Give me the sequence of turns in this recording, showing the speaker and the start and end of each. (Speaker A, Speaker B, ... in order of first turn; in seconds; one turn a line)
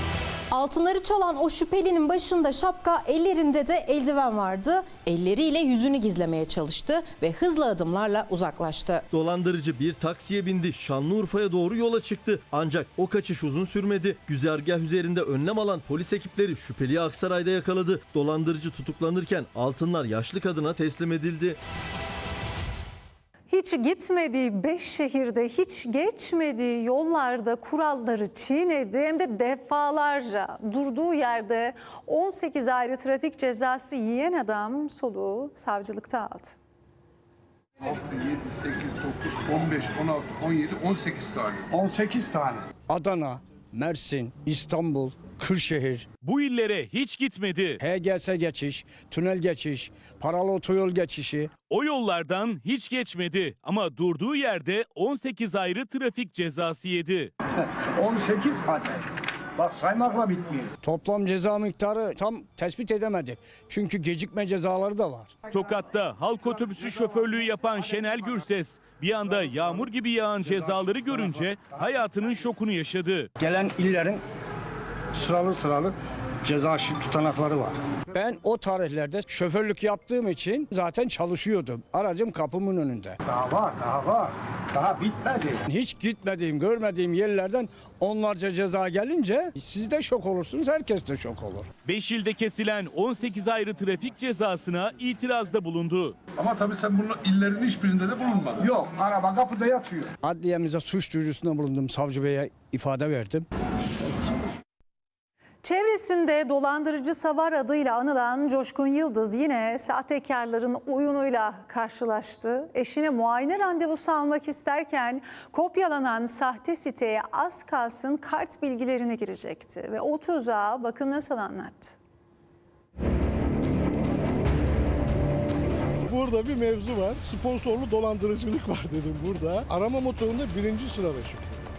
Speaker A: 0.5-9.0
Speaker B: 9.1-21.6
Speaker C: 23.5-36.5
Speaker D: 37.8-41.7
Speaker E: 41.7-46.1
Speaker F: 46.2-47.8
Speaker E: 47.8-51.5
Speaker F: 51.6-57.3
Speaker E: 58.0-58.8
Speaker E: 59.6-65.4
Speaker F: 65.4-73.3
Speaker E: 73.4-74.2
Speaker E: 75.1-84.2
Speaker E: 84.8-91.7
Speaker F: 91.8-96.2
Speaker D: 96.4-98.7
Speaker E: 98.6-103.5
Speaker C: 105.6-122.0
Speaker G: 126.0-131.7